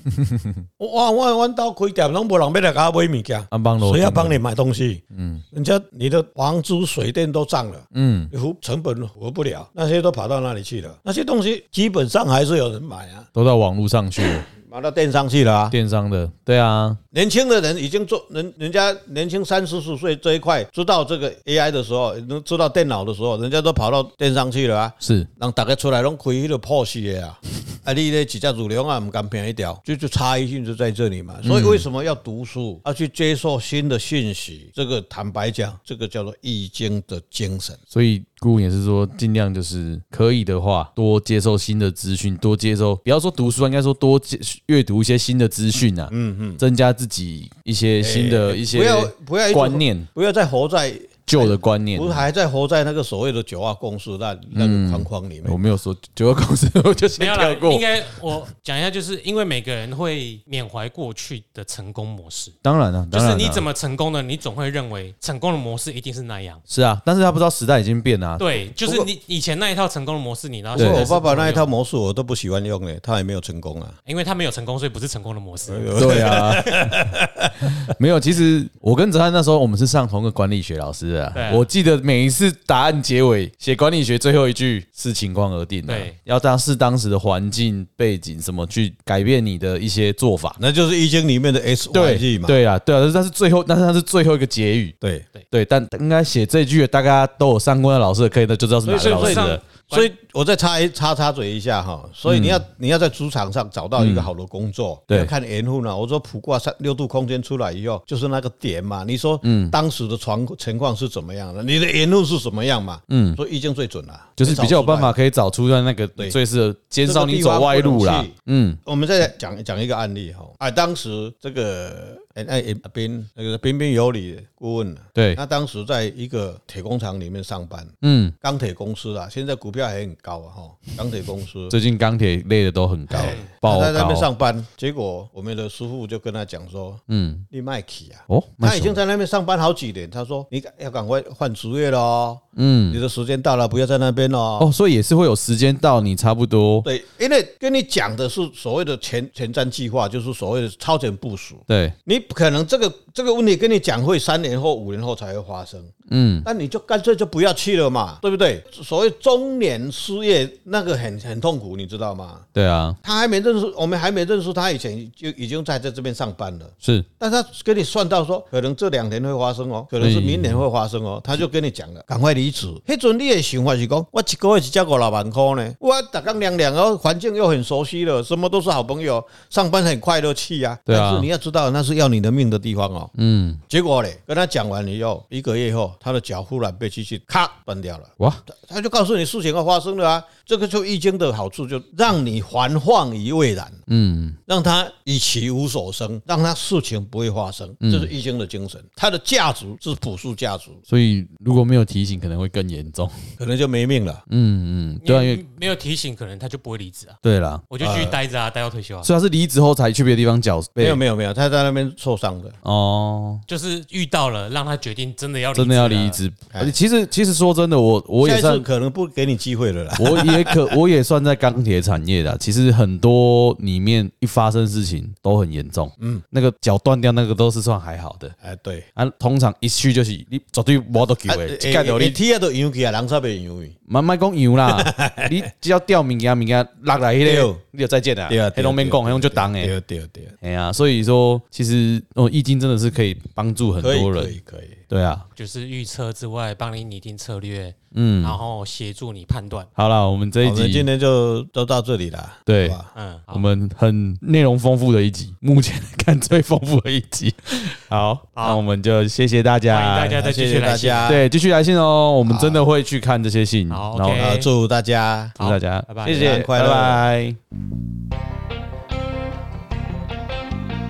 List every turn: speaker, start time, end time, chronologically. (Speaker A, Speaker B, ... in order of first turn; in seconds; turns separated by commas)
Speaker A: 0.1-0.6, Speaker B: 0.8-13.3, Speaker A: 3.5-4.4, Speaker A: 5.1-5.4, Speaker A: 7.9-8.3, Speaker A: 13.3-14.5, Speaker B: 14.5-15.8, Speaker A: 15.7-17.0, Speaker B: 17.1-37.8, Speaker A: 25.0-25.3, Speaker A: 31.4-31.9, Speaker A: 37.9-50.1, Speaker B: 46.1-46.6, Speaker B: 48.0-55.6, Speaker A: 51.3-52.3, Speaker A: 54.5-58.4, Speaker C: 57.2-62.5, Speaker A: 62.6-63.7, Speaker C: 63.1-66.6, Speaker A: 66.7-68.4, Speaker C: 68.4-71.7, Speaker B: 68.8-69.1, Speaker A: 70.8-71.1, Speaker B: 70.8-74.0, Speaker C: 74.1-76.9, Speaker B: 75.7-77.7, Speaker A: 76.0-77.0, Speaker A: 77.8-90.6, Speaker C: 81.3-81.7, Speaker C: 85.9-86.2, Speaker B: 90.6-92.6, Speaker A: 91.9-95.0, Speaker B: 95.0-95.3, Speaker A: 95.5-99.6, Speaker C: 98.9-100.1, Speaker B: 98.9-115.2, Speaker A: 102.3-102.6, Speaker A: 104.0-104.3, Speaker A: 109.4-109.8, Speaker A: 113.1-113.4, Speaker A: 114.4-118.8, Speaker B: 117.0-118.3, Speaker B: 118.8-131.8, Speaker A: 125.2-125.4, Speaker A: 128.0-128.3, Speaker A: 131.7-134.3, Speaker B: 133.1-144.7, Speaker C: 133.2-133.5, Speaker A: 137.1-137.5, Speaker A: 138.3-139.0, Speaker A: 142.6-143.0, Speaker A: 144.6-146.9, Speaker B: 146.8-162.5, Speaker A: 151.7-152.0, Speaker A: 156.1-156.5, Speaker A: 162.6-163.0, Speaker B: 163.0-183.1, Speaker A: 166.8-167.1, Speaker A: 170.0-170.6, Speaker A: 180.9-181.3, Speaker A: 183.2-183.6, Speaker B: 183.7-193.8, Speaker A: 193.9-194.4, Speaker B: 194.5-200.8, Speaker A: 197.8-198.1, Speaker A: 200.9-203.1, Speaker B: 203.4-204.2, Speaker A: 204.3-205.4, Speaker C: 205.0-209.1, Speaker A: 207.2-207.7, Speaker B: 207.8-208.2, Speaker A: 209.0-211.0, Speaker B: 210.8-212.6, Speaker A: 212.6-213.4, Speaker C: 213.5-216.2, Speaker A: 215.6-218.7, Speaker B: 216.5-216.8, Speaker B: 218.2-220.7, Speaker A: 220.0-228.3, Speaker B: 226.0-226.2, Speaker B: 228.4-228.9, Speaker A: 229.0-232.2, Speaker B: 231.3-233.8, Speaker A: 233.9-239.8, Speaker B: 234.7-235.4, Speaker B: 237.2-237.6, Speaker B: 238.3-240.3, Speaker A: 240.4-244.4, Speaker B: 243.8-244.8, Speaker A: 244.9-245.3, Speaker C: 245.4-249.7, Speaker A: 247.9-248.4, Speaker A: 249.8-250.9, Speaker B: 250.4-252.9, Speaker A: 252.5-252.8, Speaker C: 252.9-253.4, Speaker A: 253.3-260.2, Speaker C: 258.4-258.6, Speaker C: 259.7-261.1, Speaker B: 260.2-261.2, Speaker A: 261.1-264.4, Speaker B: 262.2-262.6, Speaker C: 263.7-264.5, Speaker B: 264.2-265.4, Speaker A: 265.4-267.4, Speaker C: 265.4-266.3, Speaker B: 266.1-267.0